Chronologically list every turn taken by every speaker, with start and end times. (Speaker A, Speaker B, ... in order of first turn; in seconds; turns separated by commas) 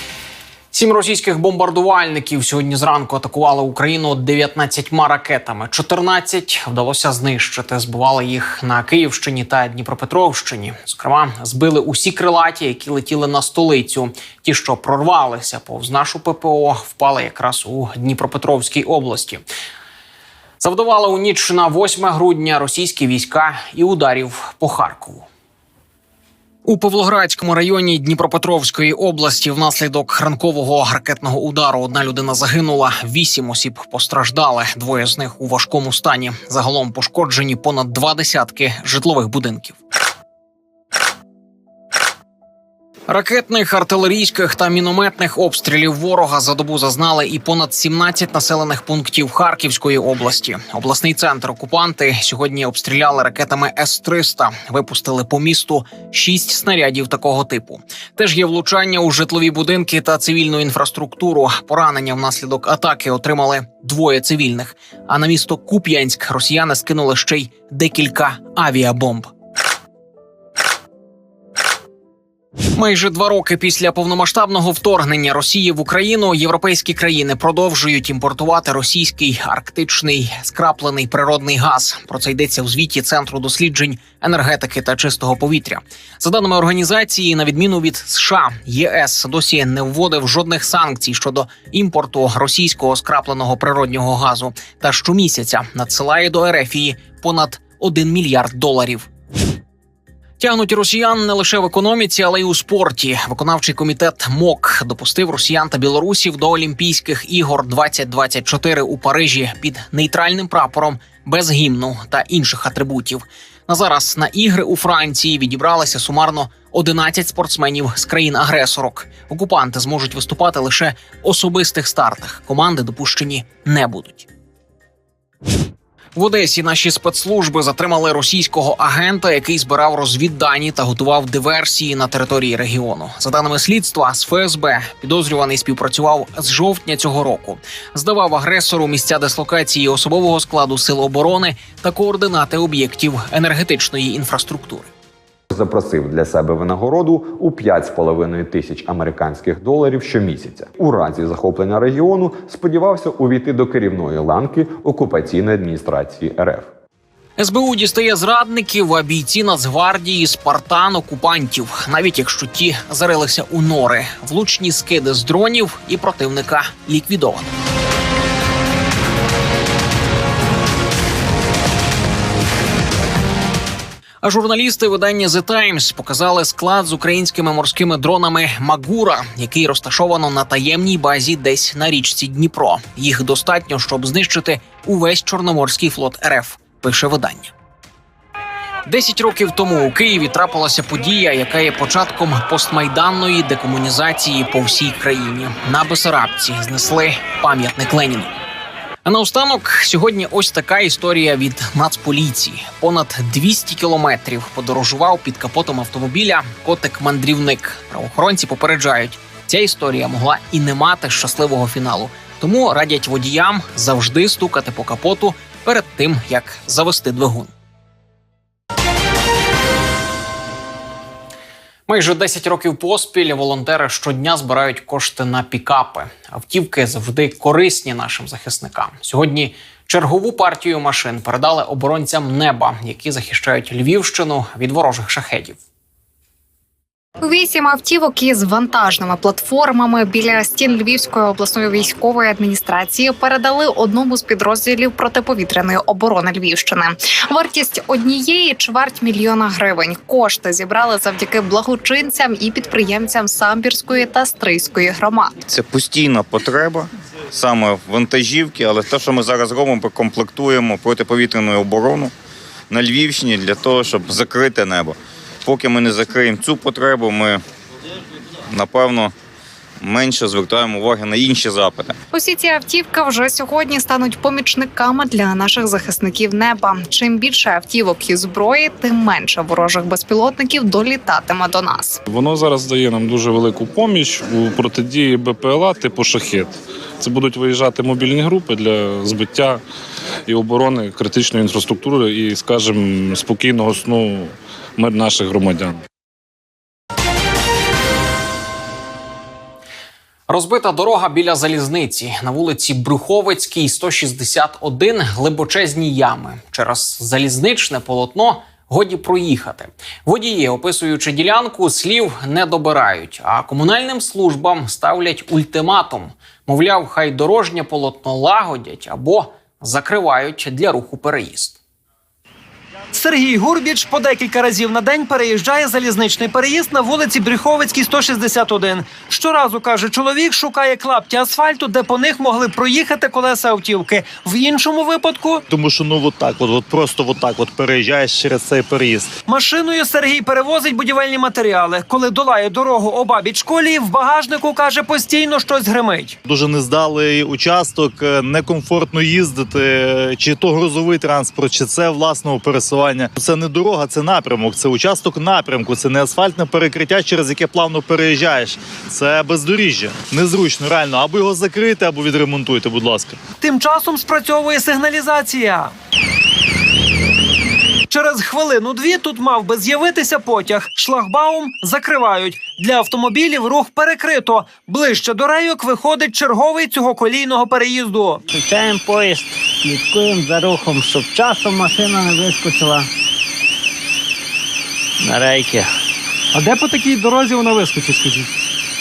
Speaker A: 0.7-19.4, Speaker A: 20.6-25.3, Speaker A: 26.6-39.8, Speaker A: 43.1-69.3, Speaker A: 72.7-99.1, Speaker A: 100.4-124.3, Speaker A: 126.1-144.9, Speaker B: 145.5-156.7, Speaker A: 157.4-167.5, Speaker A: 174.2-187.5, Speaker A: 188.8-198.3, Speaker A: 199.0-217.5, Speaker A: 221.9-235.6, Speaker C: 237.2-255.4, Speaker D: 255.5-262.1, Speaker D: 262.7-267.4, Speaker D: 268.5-269.1, Speaker D: 269.8-271.9, Speaker C: 272.1-282.0, Speaker E: 282.1-289.6, Speaker E: 290.3-295.8, Speaker A: 300.3-321.6, Speaker F: 322.9-335.4, Speaker G: 335.5-339.1, Speaker F: 339.3-346.2, Speaker G: 346.2-363.2, Speaker F: 363.4-365.7, Speaker F: 367.9-378.2, Speaker H: 378.3-382.9, Speaker H: 385.0-385.7